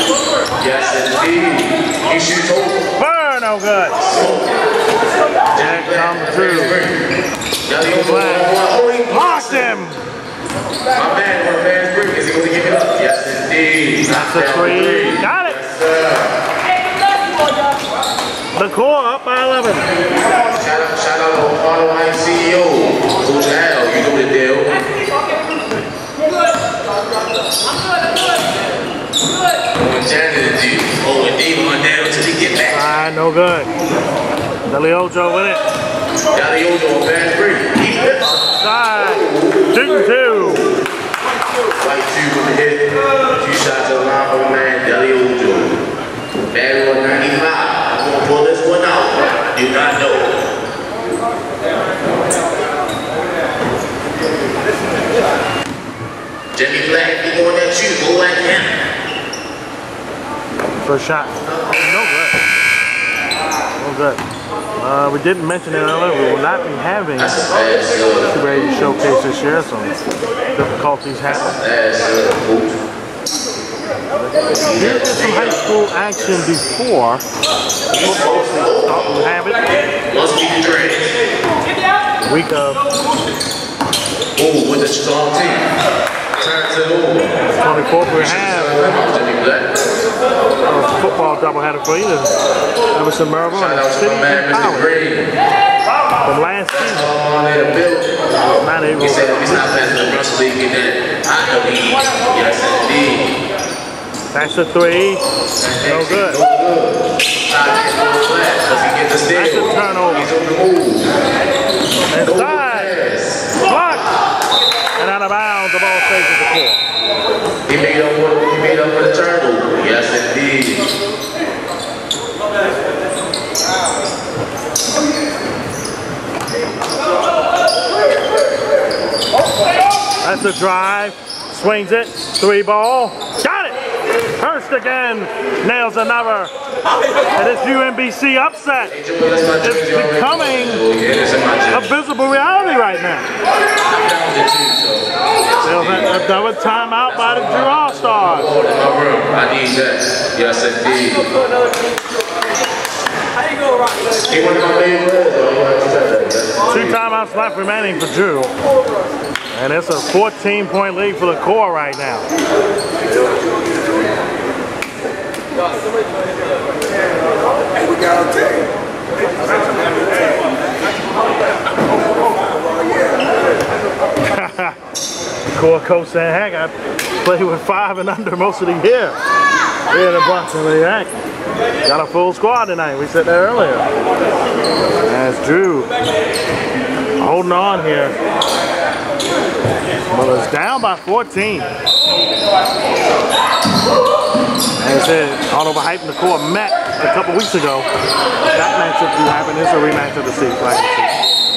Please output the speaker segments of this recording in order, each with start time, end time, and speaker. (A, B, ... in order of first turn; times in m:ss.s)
0:00.6-0:02.9 A
0:03.0-0:04.0 B
0:04.1-0:04.6 A
0:05.5-0:07.0 A
0:05.6-0:06.8 B
0:07.7-0:09.8 A
0:07.8-0:10.0 B
0:10.9-0:16.4 A
0:14.1-0:15.6 B
0:18.6-0:19.9 B
0:20.5-0:25.0 A
0:29.7-0:32.9 A
0:32.7-0:33.7 B
0:34.7-0:35.6 B
0:36.3-0:39.7 A
0:38.4-0:40.7 B
0:41.8-0:45.8 A
0:46.5-0:50.4 A
0:56.5-0:58.7 A
1:00.8-1:02.4 B
1:01.4-1:02.0 A
1:03.8-1:04.2 B
1:04.8-1:07.4 B
1:07.2-1:08.5 A
1:08.3-1:10.0 B
1:10.5-1:11.6 B
1:11.3-1:12.8 A
1:14.2-1:16.7 A
1:14.6-1:17.2 B
1:17.9-1:18.9 A
1:18.1-1:19.7 B
1:20.1-1:21.2 A
1:22.2-1:22.8 B
1:24.4-1:25.7 A
1:26.4-1:27.4 A
1:27.6-1:29.0 B
1:28.1-1:29.9 A
1:30.6-1:32.4 B
1:33.0-1:35.0 B
1:33.5-1:35.3 A
1:36.2-1:37.1 B
1:36.7-1:38.3 A
1:38.6-1:39.6 B
1:39.0-1:43.4 A
1:44.3-1:45.2 B
1:45.6-1:51.1 A
1:45.9-1:46.4 B
1:49.3-1:50.3 B
1:52.1-1:53.0 B
1:52.2-1:53.6 A
1:53.6-1:54.1 B
1:55.0-1:56.8 B
1:57.7-2:00.9 A
2:10.2-2:13.8 B
2:14.3-2:16.5 B
2:17.4-2:19.0 B
2:18.9-2:21.9 A
2:19.6-2:20.9 B
2:21.7-2:23.3 B
2:23.8-2:26.2 A
2:25.6-2:28.5 B
2:27.3-2:31.3 A
2:34.1-2:37.0 A
2:36.7-2:38.5 B
2:39.5-2:42.2 B
2:54.2-2:54.8 B
2:55.5-2:59.2 B
2:59.9-3:01.1 B
3:01.8-3:03.9 B
3:05.1-3:05.9 B
3:07.2-3:08.2 B
3:10.1-3:11.7 B
3:14.8-3:17.9 B
3:18.5-3:21.2 B